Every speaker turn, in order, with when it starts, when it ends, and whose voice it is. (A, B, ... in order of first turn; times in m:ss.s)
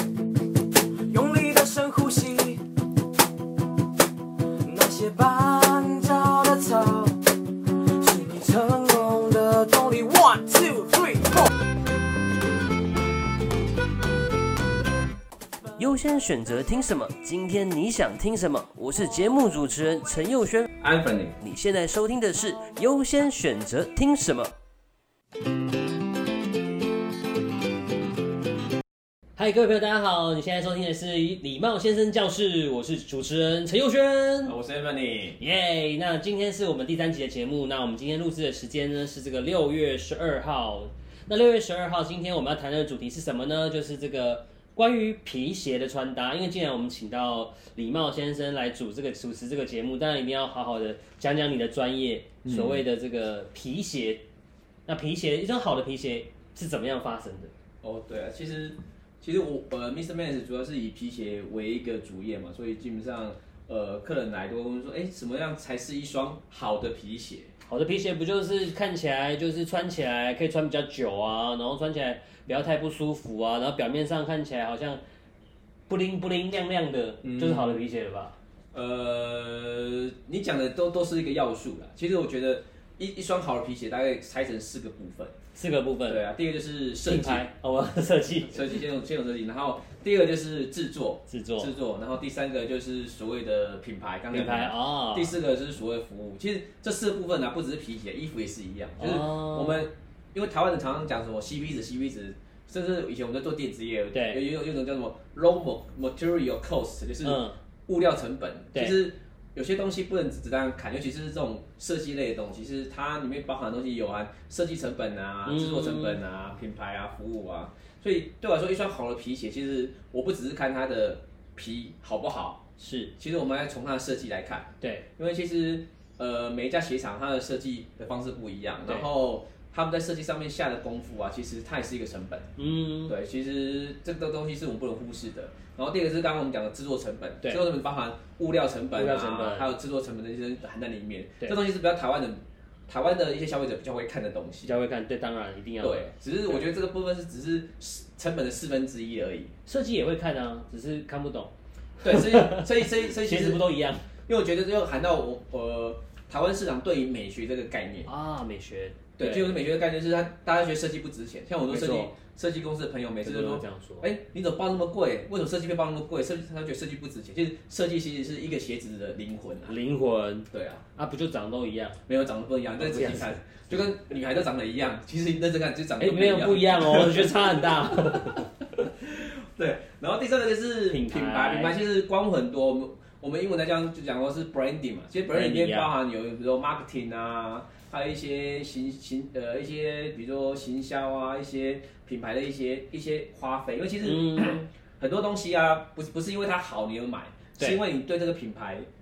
0:01.1-0:02.7 A
0:04.6-0:07.2 A
0:07.9-0:11.5 A
0:15.8-0:20.7 B
0:20.8-0:21.4 C
0:21.4-0:24.5 B
0:29.4-0:34.6 B
0:34.4-0:35.4 C
0:35.4-0:54.2 B
0:52.4-0:52.8 C
0:54.9-0:57.5 B
0:57.8-1:07.5 C
1:07.6-1:15.0 B
1:15.9-1:18.4 B
1:17.2-1:17.8 C
1:18.7-1:25.3 C
1:25.6-1:26.2 B
1:26.1-1:27.5 C
1:27.0-1:28.8 B
1:28.5-2:02.6 C
1:31.3-1:31.7 B
1:34.3-1:35.4 B
1:39.0-1:39.9 B
1:44.1-1:44.4 B
1:47.2-1:47.6 B
1:55.4-1:56.2 B
2:02.8-2:03.1 B
2:03.2-2:12.5 C
2:04.8-2:05.1 B
2:12.6-2:13.2 B
2:13.1-2:24.7 C
2:18.9-2:19.7 B
2:24.6-2:26.6 B
2:25.8-2:29.5 C
2:29.6-2:34.1 B
2:32.0-2:33.6 C
2:34.3-2:38.1 C
2:38.0-2:39.6 B
2:39.2-2:49.8 C
2:41.7-2:42.1 B
2:43.2-2:44.1 B
2:49.7-2:52.0 B
2:50.5-2:50.8 C
2:52.1-3:18.9 C
2:52.8-2:53.9 B
2:56.0-2:58.6 B
3:00.9-3:01.8 B
3:05.3-3:05.9 B
3:14.0-3:14.6 B